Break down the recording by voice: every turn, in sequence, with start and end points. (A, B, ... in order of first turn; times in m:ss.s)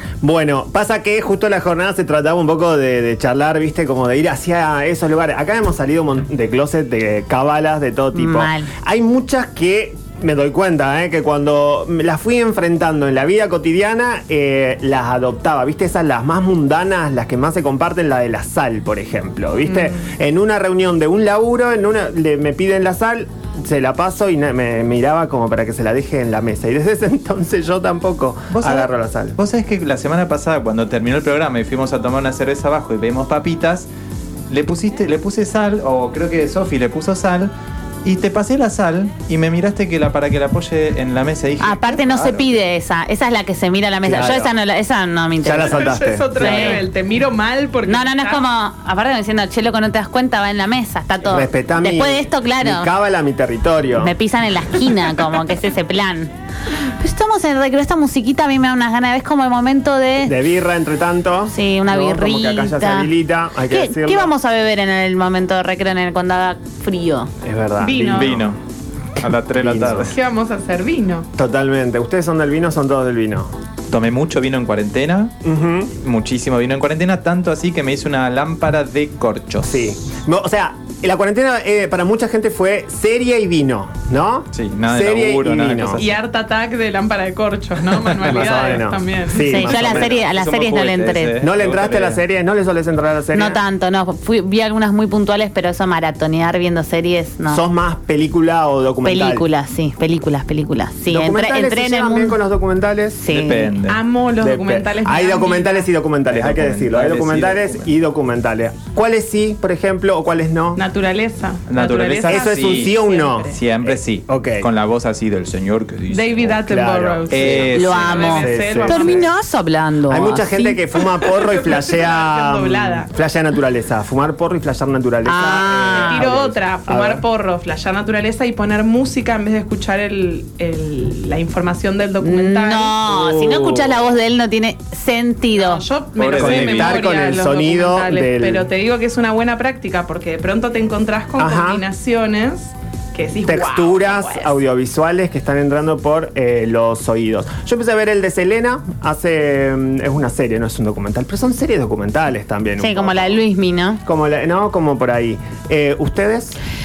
0:00.2-0:29.4 A
0:08.1-0:08.7 B
0:28.5-0:33.9 C
0:34.5-0:37.5 C
0:38.0-0:42.5 C
0:41.6-0:46.8 B
0:44.0-0:44.5 A
0:45.4-0:46.8 A
0:45.6-0:48.4 D
0:47.8-0:52.9 B
0:51.2-0:54.1 A
0:54.0-0:56.3 B
0:56.8-1:00.4 B
1:00.2-1:04.3 A
1:01.5-1:03.1 B
1:03.7-1:07.3 B
1:07.4-1:08.5 A
1:07.8-1:08.5 D
1:07.9-1:08.6 C
1:09.2-1:10.1 C
1:09.6-1:10.1 A
1:10.0-1:11.3 D
1:11.4-1:13.5 A
1:13.9-1:15.3 C
1:15.4-1:15.9 A
1:16.0-1:19.8 C
1:19.6-1:26.0 A
1:24.5-1:26.1 C
1:26.0-1:29.5 D
1:28.0-1:28.4 C
1:28.2-1:30.3 A
1:29.4-1:31.4 B
1:29.5-1:32.2 C
1:31.4-1:33.6 A
1:33.3-1:37.6 B
1:37.5-1:39.5 A
1:39.0-1:42.4 B
1:41.1-1:43.2 A
1:43.2-1:43.7 B
1:43.3-1:44.0 C
1:43.8-1:45.9 D
1:44.4-1:50.8 A
1:46.3-1:47.9 C
1:50.8-1:53.6 D
1:51.7-1:56.6 C
1:52.2-1:54.7 A
1:56.1-1:59.3 D
1:56.6-1:59.3 A
1:57.3-1:58.3 C
1:57.7-2:00.5 B
2:00.1-2:07.2 A
2:00.6-2:03.1 D
2:05.2-2:06.2 B
2:05.8-2:13.0 D
2:12.2-2:15.8 B
2:13.0-2:14.1 A
2:15.5-2:24.6 D
2:16.2-2:17.0 C
2:16.3-2:18.6 A
2:21.4-2:21.8 A
2:23.4-2:33.4 A
2:32.8-2:34.0 B
2:34.0-2:36.6 A